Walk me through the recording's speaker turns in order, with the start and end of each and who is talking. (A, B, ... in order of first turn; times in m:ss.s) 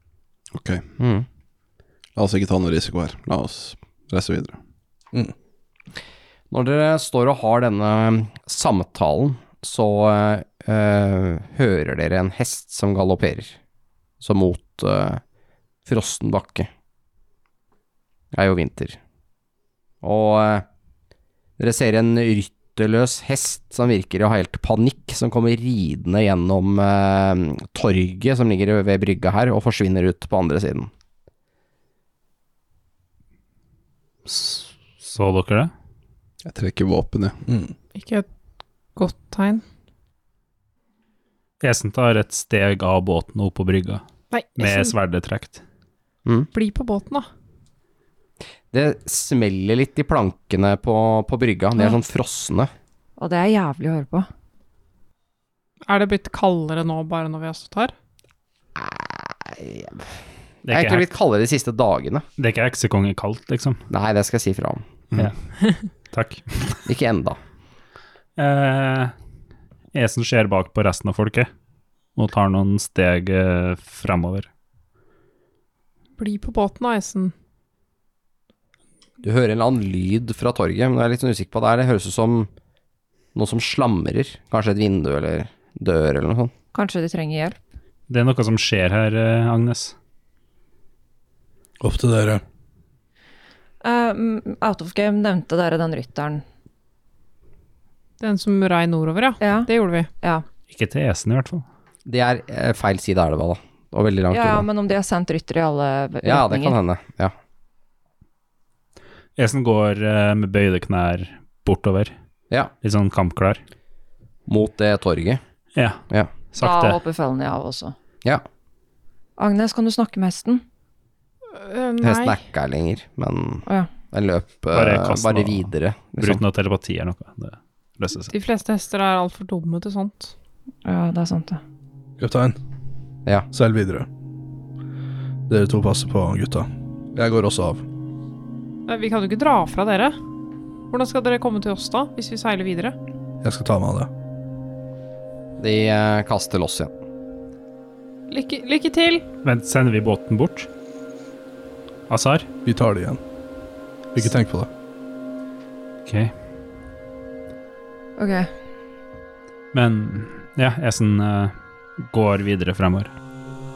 0:00.5-0:00.8 A
0:01.0-0:01.2 B
0:02.2-0:04.6 A
0:06.5-0:13.6 B
0:14.2-0:15.2 B
0:15.8-0:16.7 B
0:18.3-0:19.0 B
0:20.0-0:20.6 B
0:21.6-0:30.9 B
0:34.2-0:35.7 C
0:36.4-0:37.4 A
0:37.4-0:37.7 D
0:37.9-0:38.2 E
0:38.9-0:39.6 E
0:41.6-0:44.0 C
0:44.3-0:44.9 E
0:44.6-0:45.6 C
0:46.5-0:47.3 E
0:48.7-0:52.7 B
0:53.2-0:54.3 F
0:55.9-0:57.9 E
0:58.8-1:00.0 B
1:00.6-1:01.0 C
1:00.7-1:02.2 B
1:02.4-1:03.8 C
1:03.9-1:04.8 B
1:05.1-1:06.8 C
1:06.8-1:07.4 B
1:08.4-1:09.1 C
1:09.9-1:11.5 C
1:12.2-1:14.5 C
1:16.2-1:17.3 E
1:19.2-1:22.5 B
1:23.3-1:26.5 B
1:26.7-1:27.6 F
1:28.1-1:29.9 C
1:31.8-1:32.4 D
1:33.8-1:36.4 F
1:38.2-1:40.1 E
1:39.4-1:40.4 F
1:40.7-1:41.6 C
1:42.0-1:44.6 B
1:44.3-1:46.8 F
1:46.2-1:47.3 B
1:49.4-1:52.1 C
1:52.8-1:53.6 C
1:54.5-1:55.4 B
1:55.8-1:56.0 C
1:56.5-1:57.0 C
1:56.6-1:57.9 F
1:59.4-2:00.6 F
2:01.5-2:02.4 E
2:02.0-2:06.4 B
2:04.7-2:08.3 C
2:08.2-2:10.3 E
2:10.8-2:11.6 F
2:12.2-2:12.6 D
2:13.5-2:14.1 D
2:15.5-2:17.8 D
2:18.9-2:20.2 E
2:20.9-2:23.0 E
2:23.4-2:24.1 D
2:25.6-2:26.9 B
2:28.3-2:29.2 E
2:29.4-2:30.7 C
2:32.1-2:32.5 C
2:32.6-2:33.2 D
2:34.1-2:34.7 D
2:36.0-2:36.3 C
2:38.2-2:38.5 F
2:39.7-2:43.1 C